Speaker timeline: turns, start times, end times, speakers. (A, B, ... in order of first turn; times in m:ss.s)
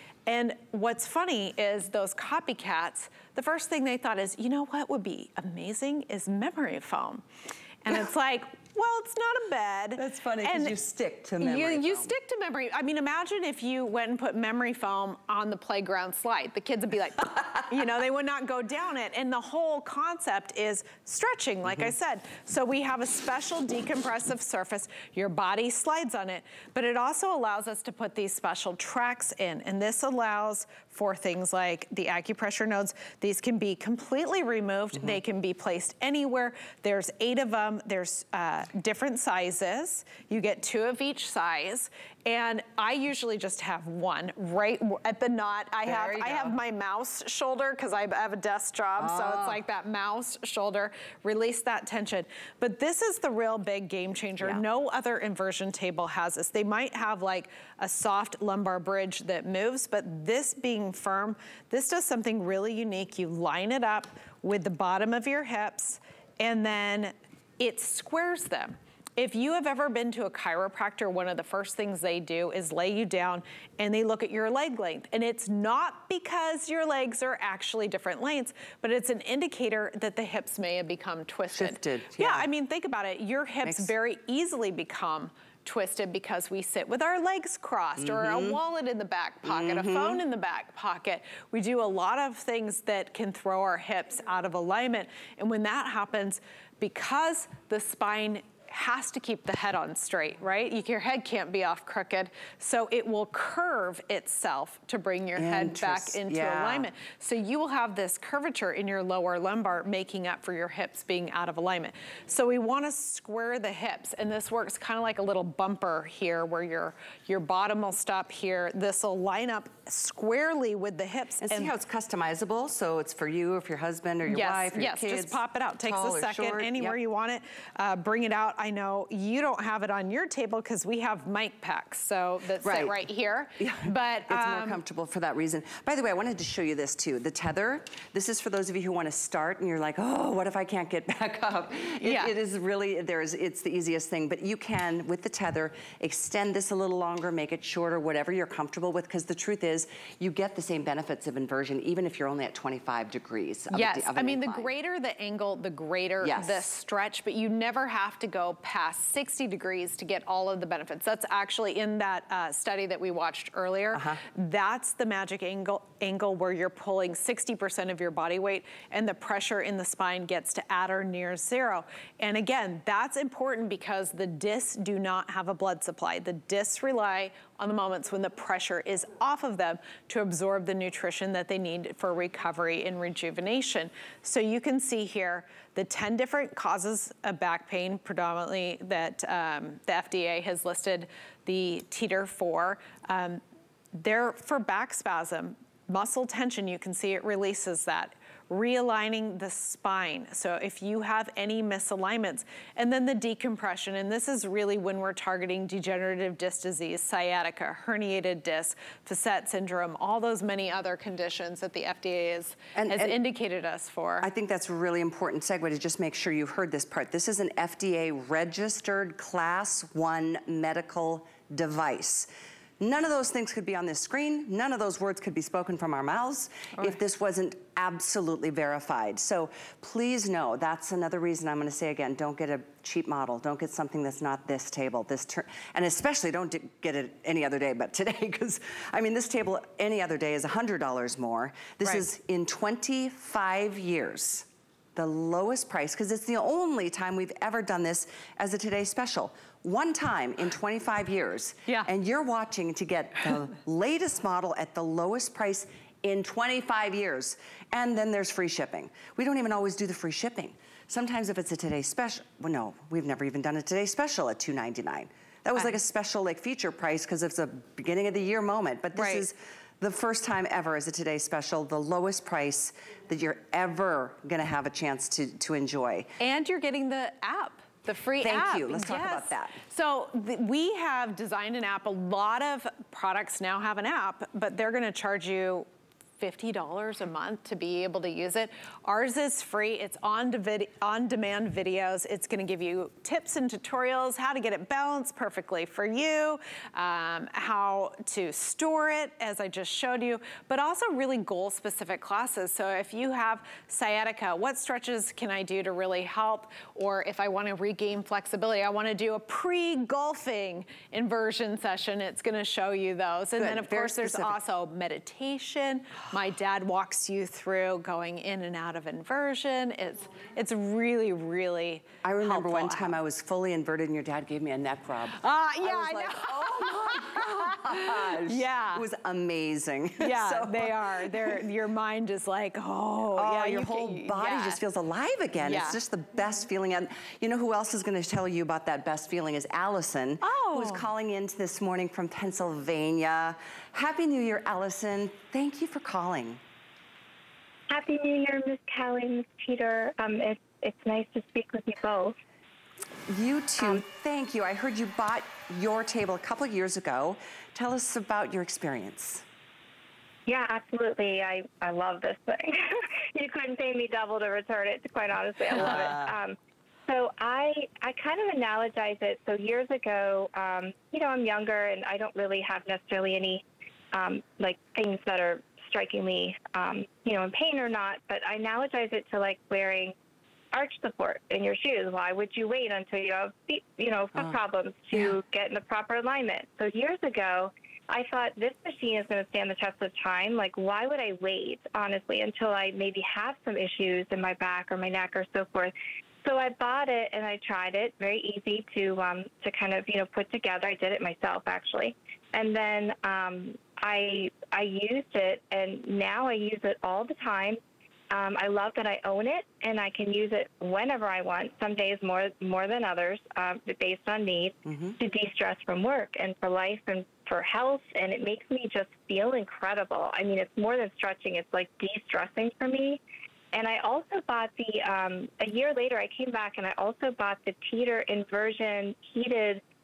0:00.3-0:07.2 A
0:07.8-0:10.8 A
0:10.0-0:12.1 B
0:11.4-2:01.7 A
0:17.4-0:17.6 B
0:21.7-0:21.9 B
0:35.0-0:35.2 B
0:45.9-0:46.6 B
0:49.0-0:49.6 B
1:21.5-1:22.5 B
1:23.6-1:23.9 B
1:28.0-1:28.6 B
1:29.5-1:30.2 B
1:45.4-1:46.9 B
2:01.4-2:07.0 B
2:04.3-2:14.8 A
2:12.6-2:13.0 B
2:13.6-2:34.7 B
2:22.0-2:22.3 A
2:33.7-3:13.4 A
2:36.2-2:36.7 B
2:43.9-2:44.2 B
3:13.9-3:34.3 A
3:32.8-3:33.2 B
3:34.2-3:42.3 B
3:42.8-4:36.1 B
4:29.0-4:29.3 A
4:36.2-4:45.7 A
4:38.2-4:39.6 B
4:46.2-5:23.0 A
5:13.4-5:14.4 B
5:22.0-5:31.4 B
5:25.2-5:28.8 A
5:30.0-5:34.6 A
5:33.2-5:46.4 B
5:35.4-5:35.8 A
5:40.2-5:40.9 A
5:47.7-5:52.1 C
5:53.1-5:59.2 B
6:00.3-6:06.4 C
6:05.5-6:06.1 B
6:05.6-6:05.9 A
6:06.9-6:19.9 C
6:20.5-6:47.6 C
6:48.1-7:03.0 C
6:54.7-6:55.0 B
7:03.5-7:09.6 C